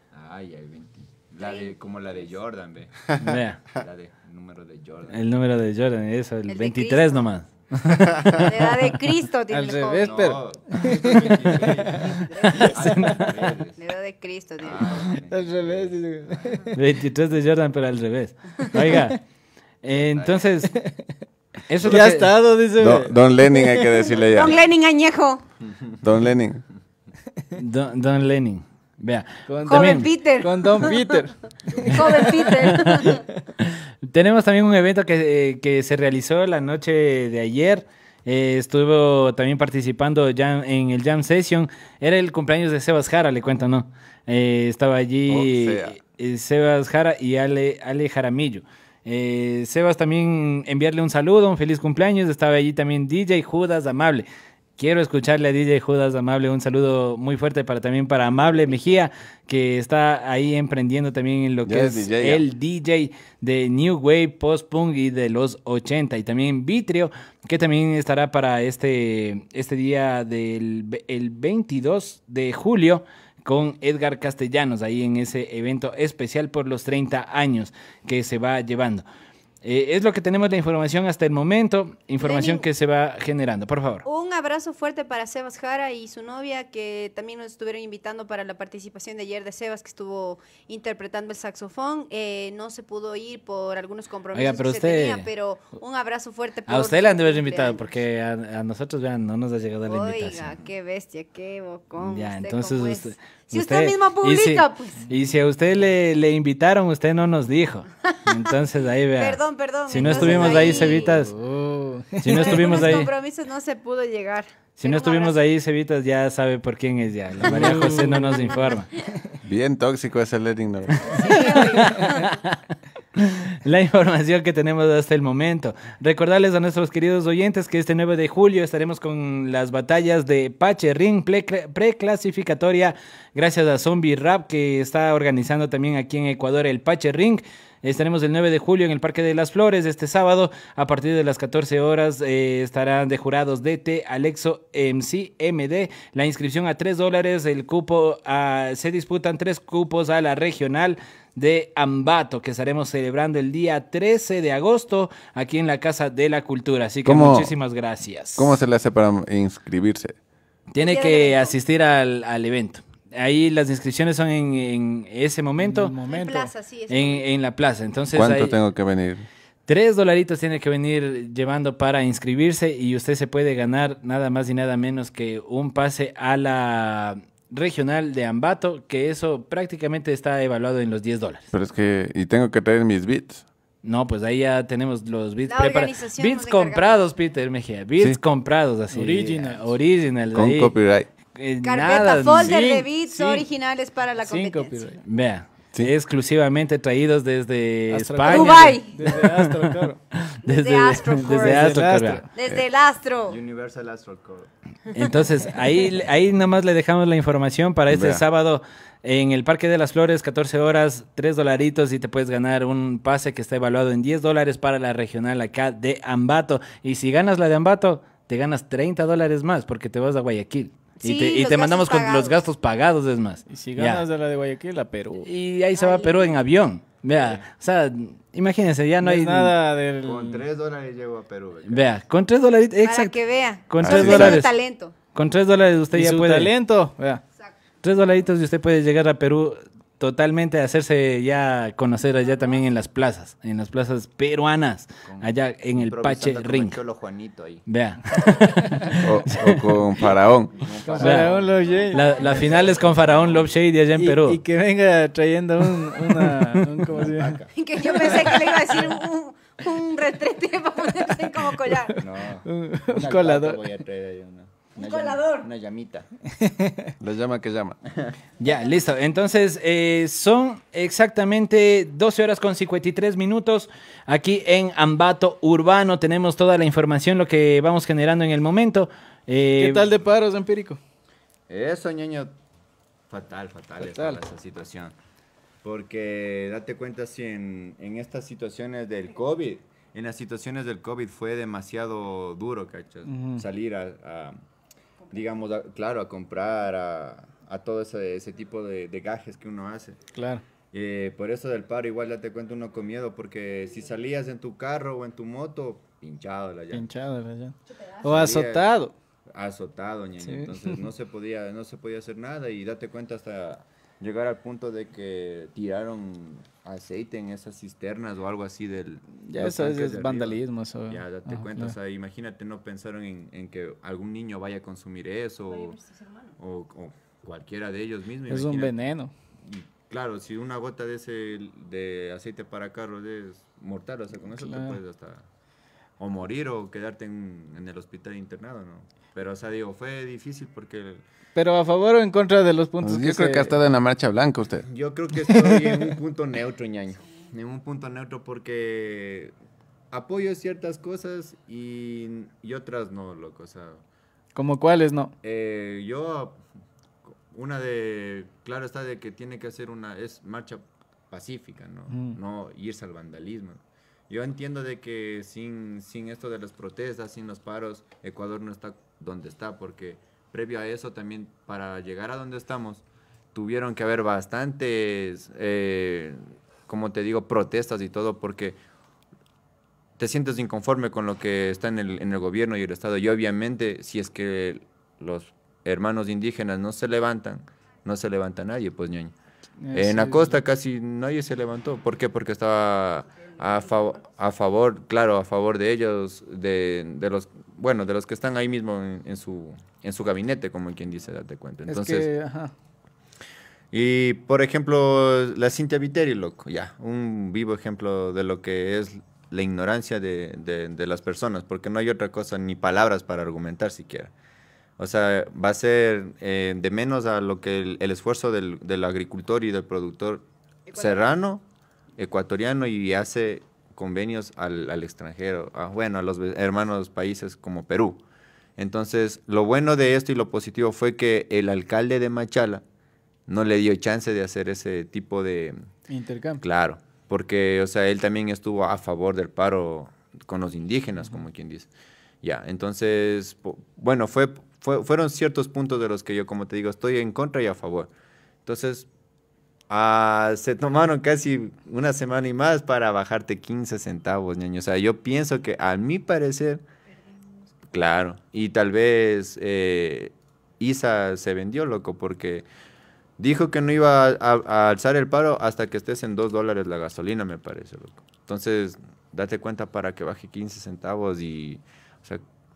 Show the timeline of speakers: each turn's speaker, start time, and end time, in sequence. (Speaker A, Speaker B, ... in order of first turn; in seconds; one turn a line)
Speaker A: 0.1-5.2
Speaker B: 1.4-1.7
Speaker C: 3.2-3.6
Speaker C: 5.1-8.1
Speaker B: 6.5-7.3
Speaker B: 8.2-10.2
Speaker D: 9.5-13.2
Speaker A: 10.0-13.8
Speaker B: 11.9-13.1
Speaker C: 12.6-13.3
Speaker B: 13.8-15.1
Speaker A: 14.6-16.7
Speaker D: 15.3-16.7
Speaker C: 16.7-19.2
Speaker C: 19.8-20.7
Speaker A: 19.9-20.4
Speaker D: 20.7-21.0
Speaker C: 21.7-22.3
Speaker D: 21.8-23.9
Speaker E: 22.8-24.6
Speaker B: 24.2-25.4
Speaker E: 26.0-26.6
Speaker C: 27.6-30.1
Speaker D: 29.5-33.2
Speaker B: 29.6-31.2
Speaker B: 31.8-33.2
Speaker C: 32.7-54.2
Speaker E: 45.3-45.9
Speaker C: 54.8-79.0
Speaker E: 61.6-62.4
Speaker C: 79.6-84.0
Speaker B: 82.2-82.6
Speaker B: 84.0-97.8
Speaker C: 94.3-95.3
Speaker C: 96.7-100.6
Speaker B: 99.9-105.1
Speaker C: 102.0-111.3
Speaker B: 109.2-111.0
Speaker D: 110.0-113.0
Speaker C: 112.2-113.1
Speaker B: 112.3-115.4
Speaker C: 114.8-118.9
Speaker D: 117.4-118.5
Speaker E: 119.4-121.1
Speaker C: 121.0-122.5
Speaker B: 121.1-122.3
Speaker C: 123.2-158.5
Speaker E: 157.0-157.5
Speaker E: 158.3-160.2
Speaker C: 160.7-165.9
Speaker B: 160.8-161.5
Speaker D: 165.6-166.5
Speaker B: 166.1-167.3
Speaker C: 166.9-168.6
Speaker E: 168.1-169.2
Speaker C: 169.7-181.5
Speaker E: 181.5-183.4
Speaker C: 183.8-190.7
Speaker B: 185.5-187.1
Speaker D: 188.9-189.7
Speaker E: 190.3-191.1
Speaker C: 191.3-192.6
Speaker B: 191.6-194.9
Speaker D: 192.3-193.4
Speaker D: 194.2-195.0
Speaker C: 195.0-199.4
Speaker D: 197.9-200.0
Speaker B: 198.3-199.0
Speaker C: 200.1-202.2
Speaker B: 200.4-201.7
Speaker D: 201.2-202.3
Speaker B: 202.3-203.4
Speaker A: 203.3-204.5
Speaker C: 204.9-224.0
Speaker E: 207.9-208.2
Speaker B: 221.0-222.3
Speaker D: 223.5-225.3
Speaker C: 225.2-229.5
Speaker B: 225.8-226.3
Speaker A: 227.1-227.4
Speaker D: 229.0-230.4
Speaker A: 230.0-231.9
Speaker C: 231.7-233.1
Speaker B: 232.8-234.9
Speaker C: 233.7-234.5
Speaker E: 233.8-234.4
Speaker C: 235.1-236.5
Speaker D: 235.9-237.2
Speaker C: 237.8-246.8
Speaker A: 245.0-248.3
Speaker C: 247.7-248.9
Speaker E: 249.0-250.6
Speaker A: 250.0-253.5
Speaker D: 250.8-252.6
Speaker C: 251.0-251.3
Speaker C: 251.9-254.4
Speaker D: 254.0-257.4
Speaker C: 256.2-256.6
Speaker A: 256.9-257.5
Speaker B: 257.5-262.0
Speaker A: 262.0-266.1
Speaker D: 262.4-263.6
Speaker B: 264.8-265.4
Speaker D: 266.4-266.9
Speaker E: 267.0-267.8
Speaker C: 268.4-279.9
Speaker D: 279.6-280.8
Speaker A: 281.5-282.3
Speaker A: 283.1-284.9
Speaker D: 283.8-284.2
Speaker A: 285.6-294.4
Speaker D: 293.1-293.4
Speaker A: 295.1-300.0
Speaker D: 300.1-300.4
Speaker A: 300.6-306.9
Speaker D: 306.7-308.9
Speaker A: 308.0-308.7
Speaker A: 309.3-325.8
Speaker D: 310.2-310.7
Speaker D: 319.2-321.7
Speaker A: 326.4-328.7
Speaker D: 328.3-329.1
Speaker A: 329.4-335.2
Speaker D: 334.3-334.8
Speaker A: 336.0-341.0
Speaker D: 341.3-343.6
Speaker E: 342.8-344.7
Speaker A: 344.7-349.3
Speaker A: 349.9-353.8
Speaker D: 354.3-355.1
Speaker A: 355.2-356.4
Speaker A: 357.3-378.6
Speaker D: 361.9-362.2
Speaker A: 380.0-389.1
Speaker D: 389.6-390.3
Speaker A: 389.7-402.1
Speaker D: 401.7-402.5
Speaker A: 403.7-414.1
Speaker A: 414.8-421.4
Speaker B: 420.7-421.0
Speaker A: 422.0-428.0
Speaker A: 428.6-432.6
Speaker A: 433.3-435.6
Speaker D: 435.9-436.4
Speaker A: 436.4-441.7
Speaker A: 442.2-447.9
Speaker A: 448.4-448.9
Speaker A: 449.7-456.6
Speaker A: 457.7-462.4
Speaker A: 463.2-472.2